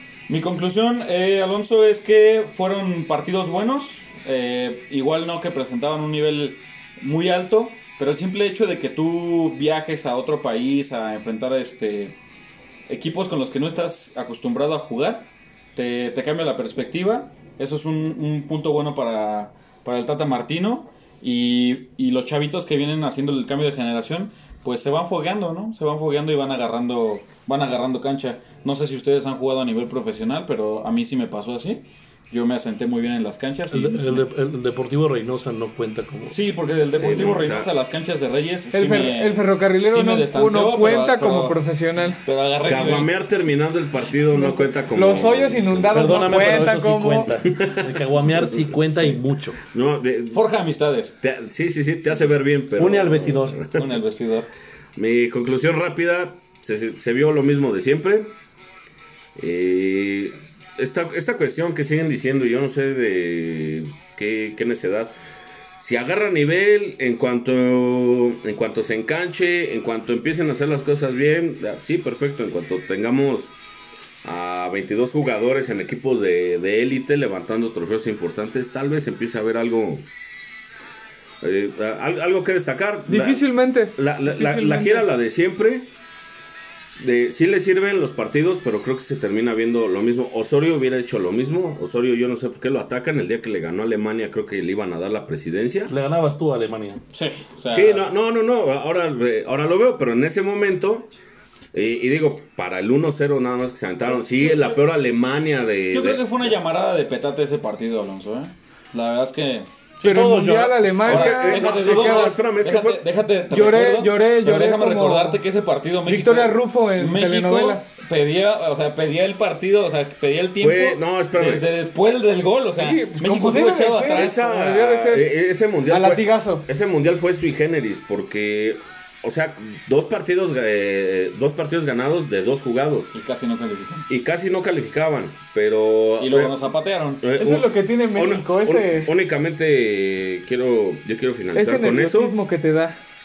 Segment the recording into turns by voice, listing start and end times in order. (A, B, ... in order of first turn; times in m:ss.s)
0:00.3-0:12.2 A
0:12.9-0:34.2 A
0:33.7-0:36.4 B
0:36.3-0:43.1 A
0:37.0-0:37.7 C
0:38.7-0:42.2 D
0:42.6-0:46.6 C
0:44.3-0:47.3 D
0:45.9-0:49.6 B
0:47.6-0:50.4 C
0:50.3-0:51.2 A
0:51.2-0:53.9 C
0:52.8-0:53.6 B
0:53.7-0:54.5 A
0:55.0-0:58.3 C
0:59.4-1:05.1 C
1:05.8-1:13.5 C
1:14.2-1:20.1 C
1:21.4-1:25.9 C
1:23.1-1:25.1 D
1:27.0-1:35.9 C
1:35.9-1:37.0 B
1:37.1-1:38.1 A
1:37.7-1:41.1 C
1:41.7-1:46.2 C
1:44.1-1:44.8 A
1:45.9-1:49.7 A
1:50.0-1:51.0 B
1:50.0-1:52.3 D
1:51.0-1:53.0 C
1:51.1-2:04.4 A
1:53.5-1:55.4 D
1:56.0-1:57.8 D
2:00.6-2:01.7 C
2:02.8-2:05.3 D
2:04.0-2:13.1 C
2:05.8-2:06.6 D
2:13.1-2:14.1 A
2:14.1-2:16.5 C
2:16.2-2:17.2 A
2:17.2-2:22.3 C
2:17.4-2:19.1 D
2:21.5-2:23.0 D